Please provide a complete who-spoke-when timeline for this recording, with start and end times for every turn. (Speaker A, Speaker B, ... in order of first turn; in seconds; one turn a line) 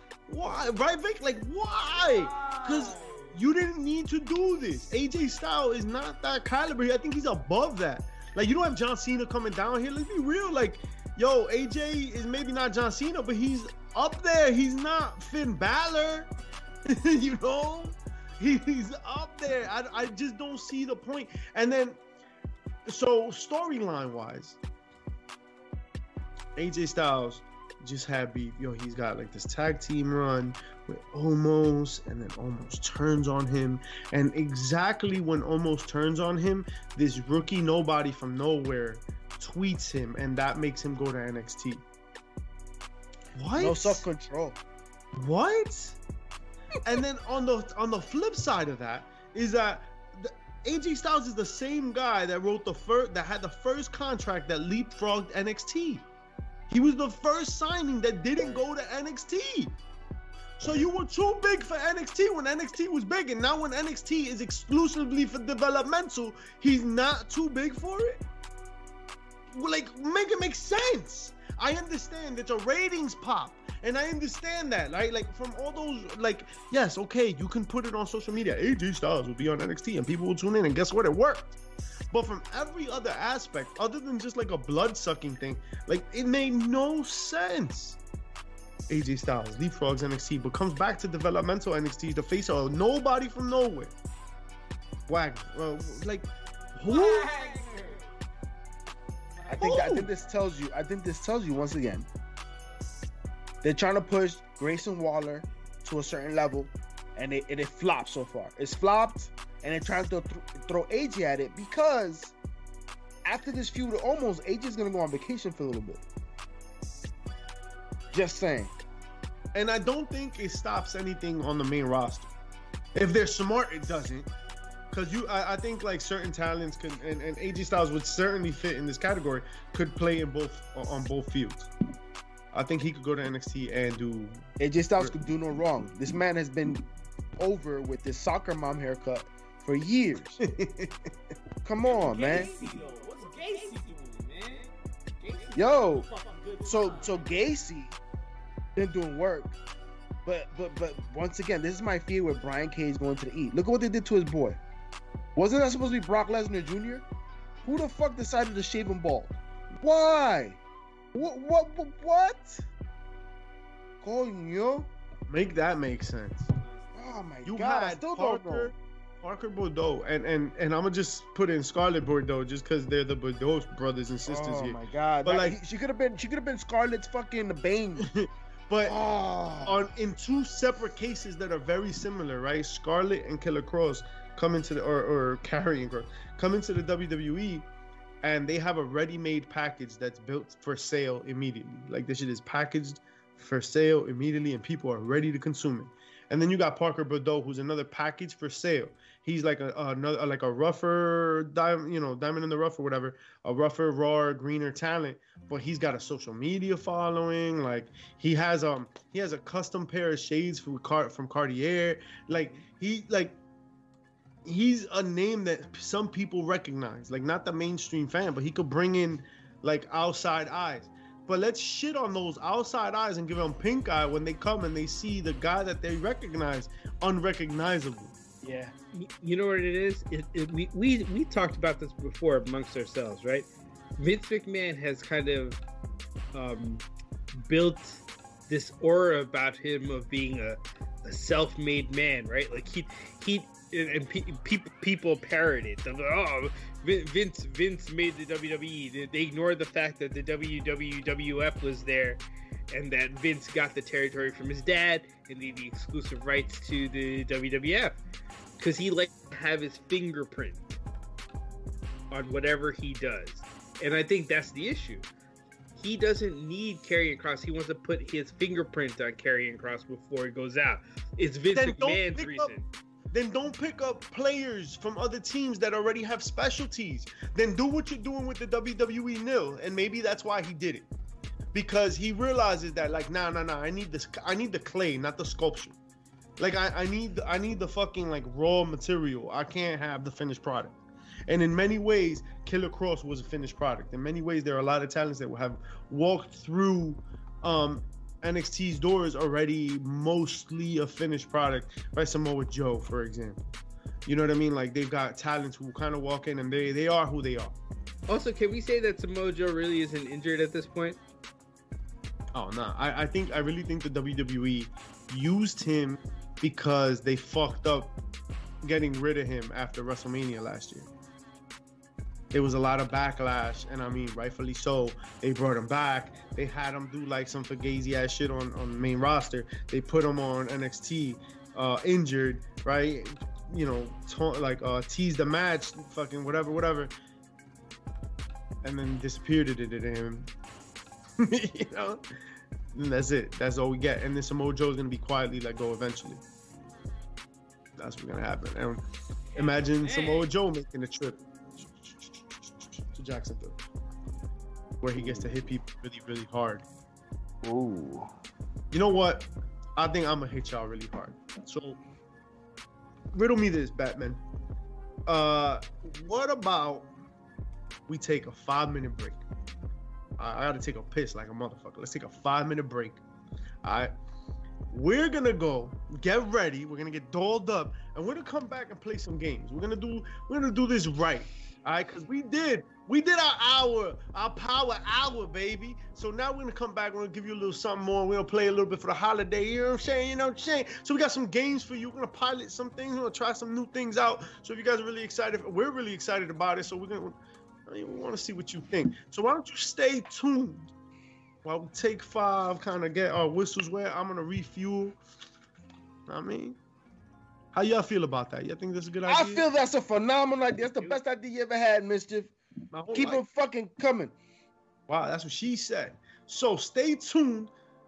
Speaker A: 0.3-16.3
Speaker B: 2.1-3.4
Speaker A: 16.9-22.0
Speaker A: 22.9-24.6
Speaker A: 26.6-41.8
Speaker A: 43.4-44.0
Speaker C: 43.5-44.6
Speaker A: 45.1-46.0
Speaker A: 46.8-56.1
Speaker A: 56.7-59.8
Speaker A: 60.6-68.2
Speaker A: 69.5-81.6
Speaker A: 82.1-88.0
Speaker A: 88.9-94.0
Speaker A: 95.1-97.3
Speaker B: 96.8-98.1
Speaker B: 99.3-99.8
Speaker C: 99.5-102.1
Speaker A: 99.6-100.1
Speaker C: 103.6-112.3
Speaker C: 113.2-116.0
Speaker C: 118.1-118.7
Speaker A: 119.5-122.3
Speaker A: 122.9-124.3
Speaker A: 124.9-131.7
Speaker A: 132.5-135.1
Speaker C: 134.6-140.4
Speaker A: 140.4-141.1
Speaker C: 141.6-142.5
Speaker B: 141.8-147.4
Speaker C: 145.5-146.1
Speaker C: 146.6-148.0
Speaker C: 148.8-149.6
Speaker C: 150.2-154.6
Speaker C: 155.3-157.0
Speaker C: 157.6-160.6
Speaker C: 161.1-162.6
Speaker C: 164.0-164.9
Speaker A: 165.3-166.5
Speaker B: 166.6-167.0
Speaker C: 166.9-168.7
Speaker A: 167.4-175.6
Speaker C: 174.3-178.1
Speaker A: 178.0-178.9
Speaker C: 178.8-179.8
Speaker A: 179.6-187.7
Speaker A: 188.2-213.4
Speaker A: 214.4-228.2
Speaker C: 228.4-228.7
Speaker D: 228.9-235.6
Speaker D: 236.3-236.8
Speaker D: 237.3-252.2
Speaker D: 252.7-258.0
Speaker D: 258.6-260.8
Speaker D: 262.1-265.1
Speaker D: 265.7-272.7
Speaker A: 271.5-272.5
Speaker A: 273.1-280.9
Speaker A: 281.5-285.8
Speaker A: 286.4-303.4
Speaker A: 304.1-307.6
Speaker D: 308.1-311.0
Speaker A: 312.3-317.9
Speaker A: 318.6-320.9
Speaker A: 322.3-336.9
Speaker A: 338.6-340.3
Speaker A: 341.2-342.0
Speaker A: 342.7-346.2
Speaker A: 347.8-348.8
Speaker B: 349.3-350.3
Speaker A: 349.4-353.6
Speaker A: 354.8-356.6
Speaker C: 355.0-355.5
Speaker C: 357.4-358.1
Speaker A: 358.7-361.8
Speaker A: 363.1-364.2
Speaker A: 365.1-366.9
Speaker A: 367.9-369.2
Speaker A: 370.2-373.0
Speaker A: 373.6-373.9
Speaker A: 374.7-400.7
Speaker A: 401.4-405.0
Speaker A: 406.1-406.6
Speaker A: 407.5-409.5
Speaker C: 409.1-412.3
Speaker A: 412.7-413.2
Speaker C: 412.9-414.1
Speaker A: 414.9-417.5